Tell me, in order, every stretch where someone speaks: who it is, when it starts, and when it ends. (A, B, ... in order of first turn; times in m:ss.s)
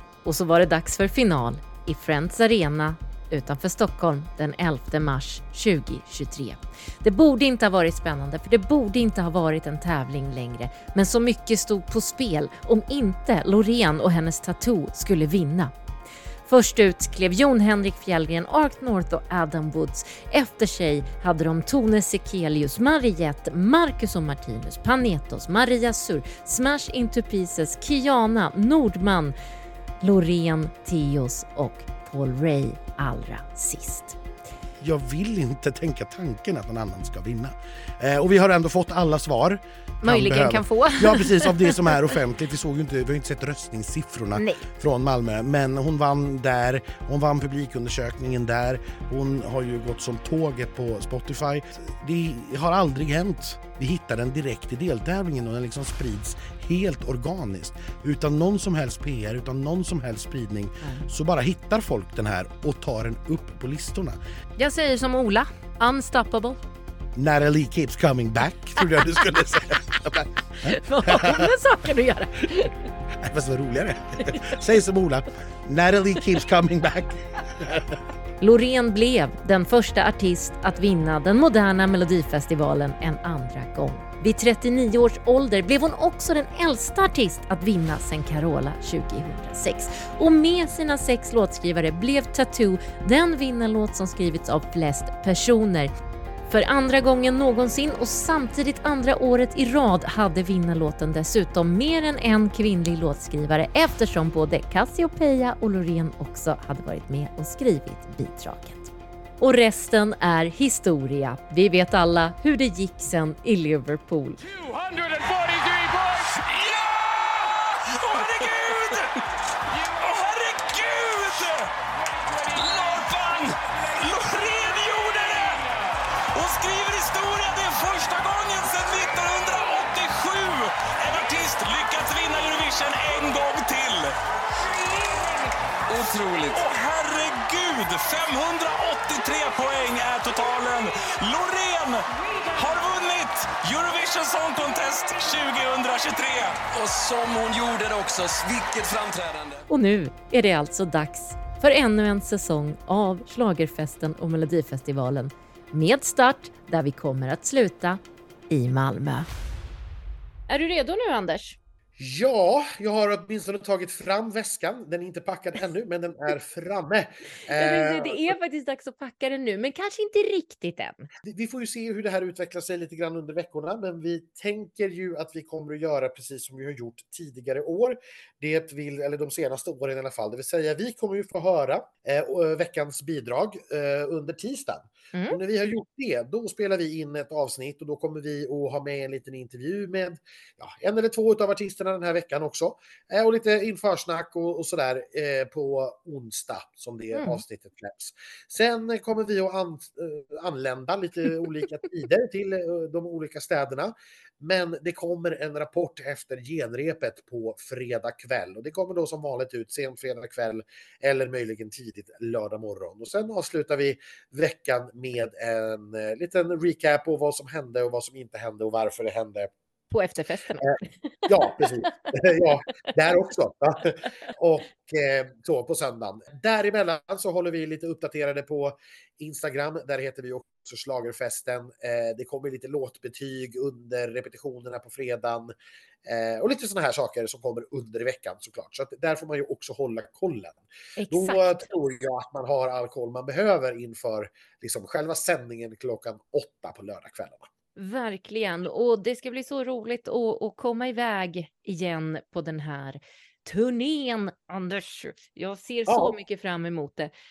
0:00.2-0:15.7 A
0:16.4-0:29.3 A
0:30.0-0:34.2 A
0:34.8-1:04.2 B
0:40.0-0:41.9 A
0:44.4-0:44.6 A
1:04.6-1:06.6 A
1:07.2-1:11.5 B
1:10.6-1:12.7 A
1:13.2-1:18.0 B
1:18.4-1:35.9 A
1:36.5-1:54.4 A
1:54.4-2:01.7 C
2:02.3-2:14.1 C
2:14.8-2:15.3 C
2:15.9-2:29.6 C
2:29.7-2:39.3 A
2:40.5-2:41.6 A
2:42.0-2:48.3 B
2:47.5-2:51.1 A
2:51.2-3:39.5 B
3:17.1-3:17.4 A
3:39.9-3:42.1 A
3:41.3-3:55.5 B
3:56.0-4:07.5 B
4:01.0-4:01.7 A
4:07.8-4:17.1 A
4:15.9-4:16.2 B